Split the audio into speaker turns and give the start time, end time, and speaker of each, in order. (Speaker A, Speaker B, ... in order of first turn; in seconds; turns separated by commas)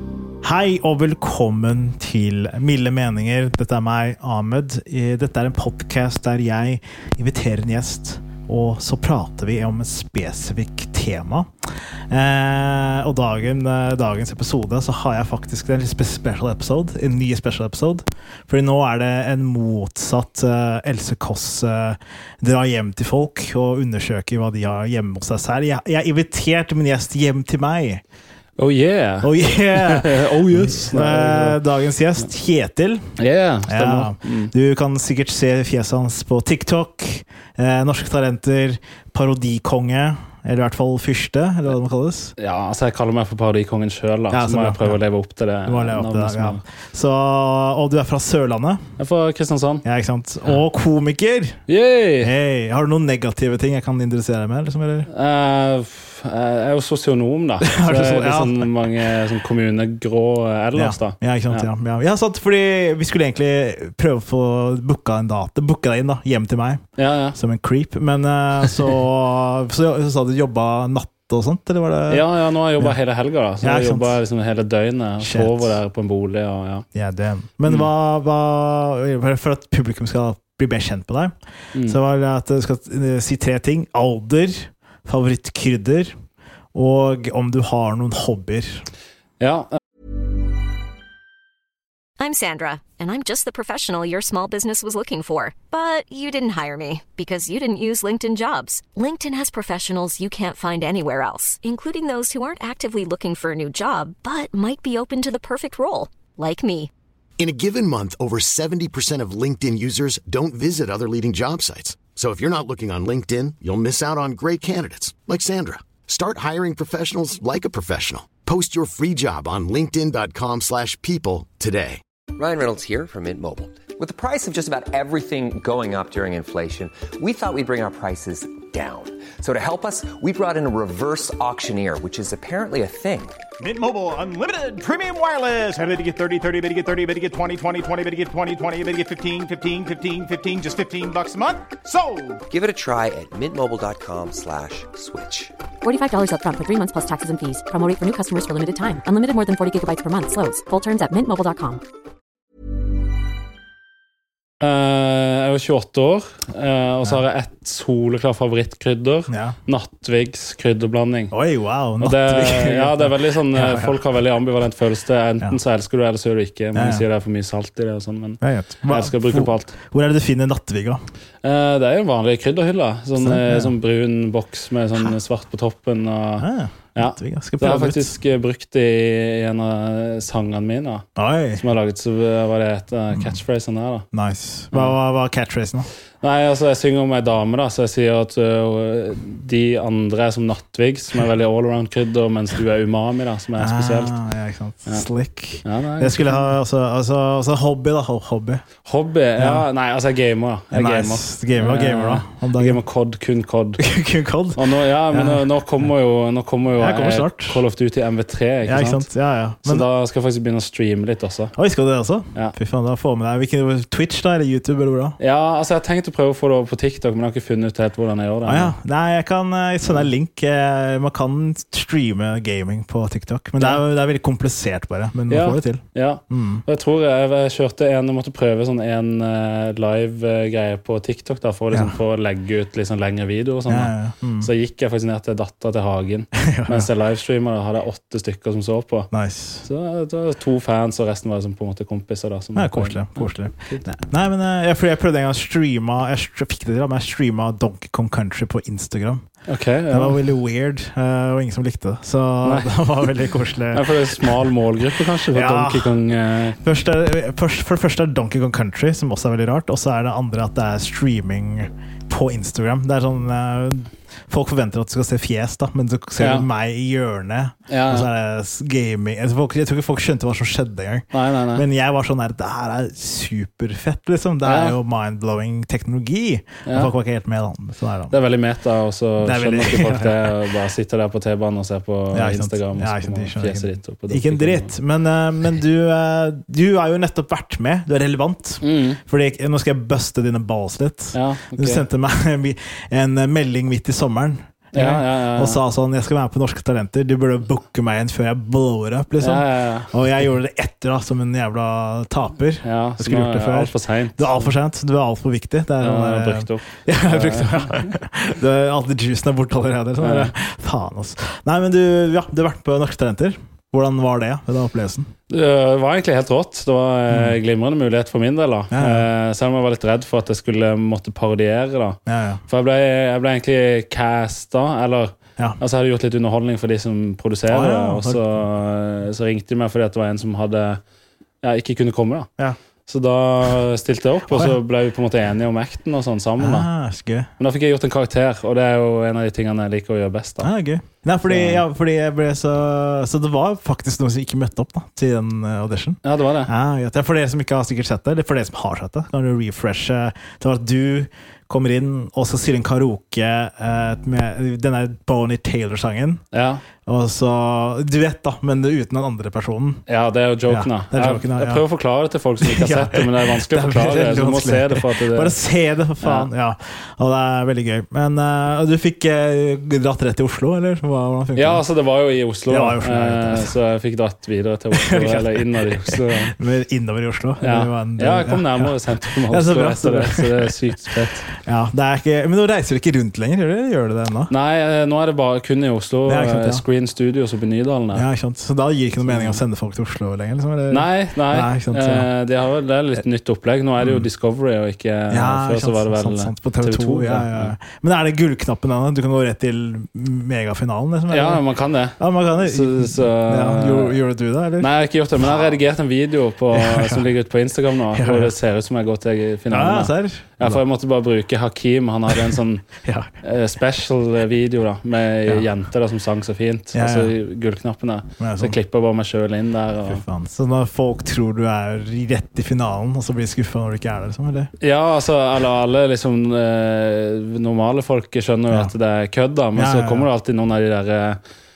Speaker A: 0.4-28.0, Speaker B: 28.6-31.6, Speaker A: 29.2-33.1, Speaker B: 33.2-34.5, Speaker A: 33.7-42.3, Speaker B: 42.4-46.6, Speaker A: 44.3-45.0, Speaker A: 45.6-48.9, Speaker B: 49.0-49.8, Speaker A: 49.8-51.6, Speaker B: 51.7-52.3, Speaker A: 52.2-55.1, Speaker B: 55.1-61.7, Speaker A: 57.6-58.7, Speaker A: 60.8-72.3, Speaker B: 67.0-67.4, Speaker B: 72.1-76.8, Speaker A: 73.6-74.1, Speaker A: 75.2-75.7, Speaker A: 76.9-86.2, Speaker A: 86.7-88.9, Speaker B: 89.4-89.8, Speaker C: 92.2-106.9, Speaker D: 107.4-122.0, Speaker E: 122.3-133.4, Speaker F: 133.6-142.4, Speaker E: 142.5-145.5, Speaker G: 145.8-151.8, Speaker B: 154.6-161.3, Speaker A: 159.3-159.6, Speaker A: 161.3-164.0, Speaker B: 162.0-169.8, Speaker A: 166.8-167.1, Speaker A: 168.4-171.0, Speaker B: 171.4-184.1, Speaker A: 173.2-173.7, Speaker A: 176.4-178.2, Speaker A: 181.2-181.6, Speaker A: 184.1-185.9, Speaker B: 186.2-194.2, Speaker A: 193.6-198.6, Speaker B: 195.6-196.5, Speaker B: 198.9-203.8, Speaker A: 199.4-199.7, Speaker A: 200.7-202.8, Speaker A: 203.8-205.5, Speaker B: 204.6-209.1, Speaker A: 206.8-207.6, Speaker A: 208.7-209.9, Speaker B: 209.6-211.5, Speaker A: 211.6-215.2, Speaker B: 215.2-218.7, Speaker A: 218.4-226.6, Speaker B: 225.3-239.1, Speaker A: 233.7-234.5, Speaker A: 236.4-236.9, Speaker A: 239.1-239.7, Speaker B: 239.6-243.8, Speaker A: 242.6-249.3, Speaker B: 249.5-250.2, Speaker A: 249.9-254.4, Speaker B: 252.4-253.0, Speaker B: 253.7-256.6, Speaker A: 255.3-256.0, Speaker A: 256.6-278.2, Speaker B: 266.2-266.5, Speaker B: 267.7-268.1, Speaker B: 271.1-271.6, Speaker B: 274.4-274.8, Speaker B: 276.6-276.9, Speaker B: 278.1-284.7, Speaker A: 279.2-280.4, Speaker A: 282.1-315.1, Speaker B: 288.6-289.0, Speaker B: 291.1-291.8, Speaker B: 294.7-295.6, Speaker B: 299.2-299.9, Speaker B: 302.6-304.5, Speaker B: 305.8-307.9, Speaker B: 310.0-310.3, Speaker B: 315.3-330.8, Speaker A: 317.1-317.4, Speaker A: 318.7-319.1, Speaker A: 322.1-322.4, Speaker A: 327.5-328.2, Speaker B: 331.4-332.3, Speaker B: 332.9-336.7, Speaker A: 334.3-334.6, Speaker A: 336.4-337.3, Speaker B: 337.4-340.5, Speaker A: 340.4-356.2, Speaker B: 341.3-341.6, Speaker B: 346.0-346.5, Speaker B: 356.3-356.6, Speaker A: 356.9-359.8, Speaker B: 359.9-365.4, Speaker A: 360.5-361.6, Speaker A: 362.4-371.6, Speaker B: 366.0-366.3, Speaker B: 371.4-376.3, Speaker A: 372.5-373.6, Speaker A: 374.7-384.3, Speaker B: 377.4-381.3, Speaker B: 384.3-388.1, Speaker A: 386.1-386.6, Speaker A: 387.9-392.1, Speaker B: 389.1-389.4, Speaker B: 390.7-397.5, Speaker A: 393.8-394.1, Speaker A: 395.1-405.6, Speaker B: 401.1-404.0, Speaker B: 404.6-412.7, Speaker A: 406.5-407.1, Speaker A: 407.9-408.4, Speaker A: 409.5-410.6, Speaker A: 412.8-413.1, Speaker B: 413.2-420.0, Speaker A: 416.7-417.1, Speaker A: 418.2-418.6, Speaker A: 419.9-424.5, Speaker B: 424.6-431.2, Speaker A: 429.5-430.1